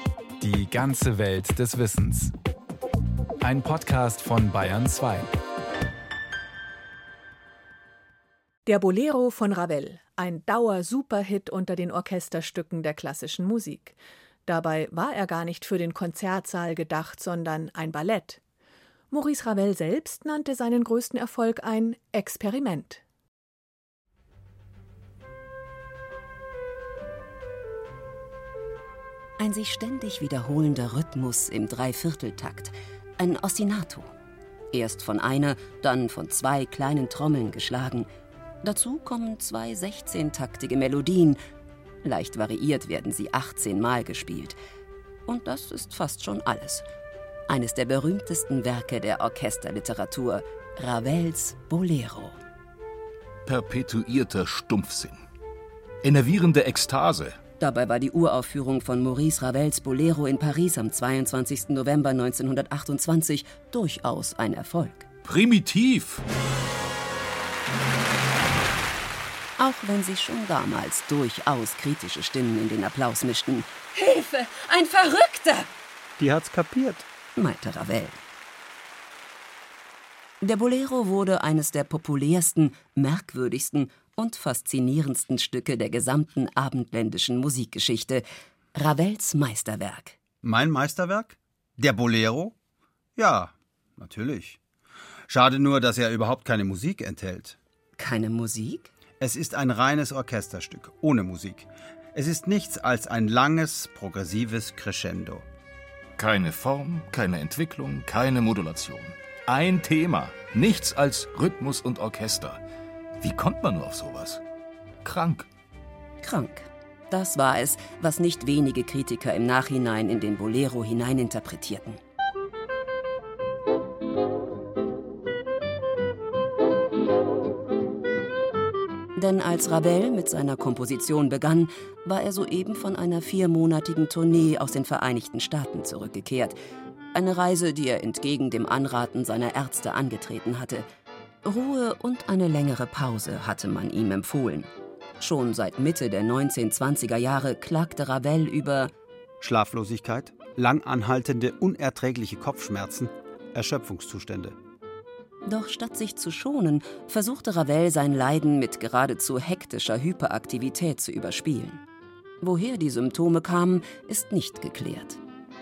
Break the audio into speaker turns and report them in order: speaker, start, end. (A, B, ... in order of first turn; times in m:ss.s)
0:00.4-0:02.3 A
0:03.4-0:05.3 A
0:08.7-0:18.4 B
0:19.1-0:23.0 B
0:29.4-0:34.1 C
0:34.7-0:38.1 C
0:38.6-0:41.4 C
0:42.0-0:44.6 C
0:45.2-0:46.8 C
0:47.5-0:52.4 C
0:53.4-0:55.2 D
0:56.0-0:57.4 D
0:57.6-1:05.1 C
1:05.2-1:06.2 D
1:09.6-1:15.7 C
1:16.2-1:17.0 E
1:17.4-1:18.2 C
1:20.4-1:28.2 C
1:28.7-1:30.2 C
1:30.4-1:32.5 E
1:33.2-1:34.6 E
1:35.3-1:37.6 E
1:38.0-1:38.9 C
1:39.2-1:45.4 E
1:46.2-1:52.6 D
1:53.2-1:54.4 D
1:55.0-1:55.5 D
1:56.2-2:02.0 C
2:09.2-2:16.6 C
2:17.1-2:20.9 C
2:21.4-2:28.9 C
2:29.4-2:34.6 E
2:35.4-2:41.8 C
2:42.4-2:45.2 C